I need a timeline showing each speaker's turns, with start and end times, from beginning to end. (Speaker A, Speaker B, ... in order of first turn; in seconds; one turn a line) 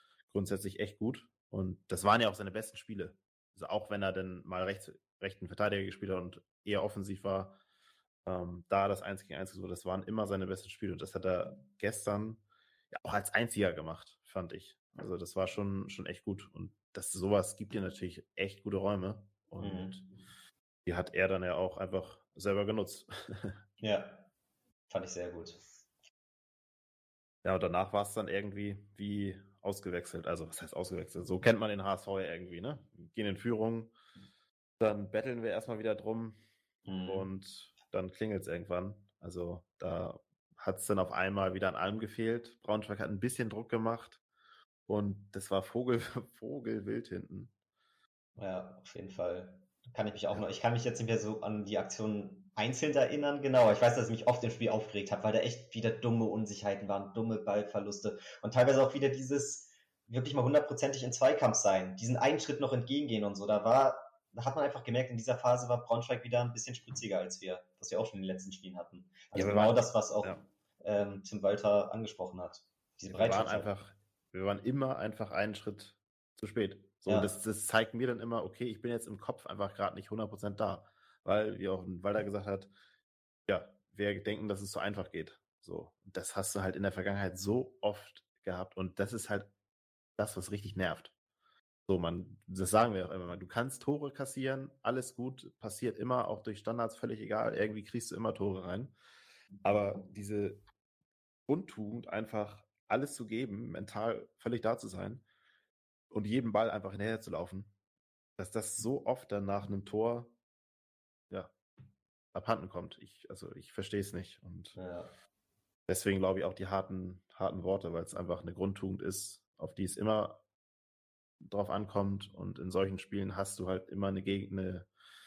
Speaker A: 0.3-7.6
Speaker A: 8.2-20.1
Speaker B: 19.6-20.0
Speaker A: 20.9-23.6
Speaker B: 23.8-24.3
Speaker B: 24.9-25.6
Speaker A: 27.4-33.9
Speaker A: 34.8-36.4
Speaker B: 36.9-37.3
Speaker A: 37.0-44.2
Speaker A: 44.9-47.5
Speaker B: 48.4-73.7
Speaker A: 69.3-70.4
Speaker A: 73.1-82.7
Speaker B: 77.0-77.3
Speaker A: 83.5-89.5
Speaker A: 90.2-91.1
Speaker A: 91.9-98.9
Speaker A: 99.6-100.6
Speaker A: 101.5-105.2
Speaker A: 106.1-107.7
Speaker A: 108.4-110.3
Speaker A: 112.3-114.8
Speaker B: 114.8-115.1
Speaker A: 115.9-120.4
Speaker A: 121.4-124.9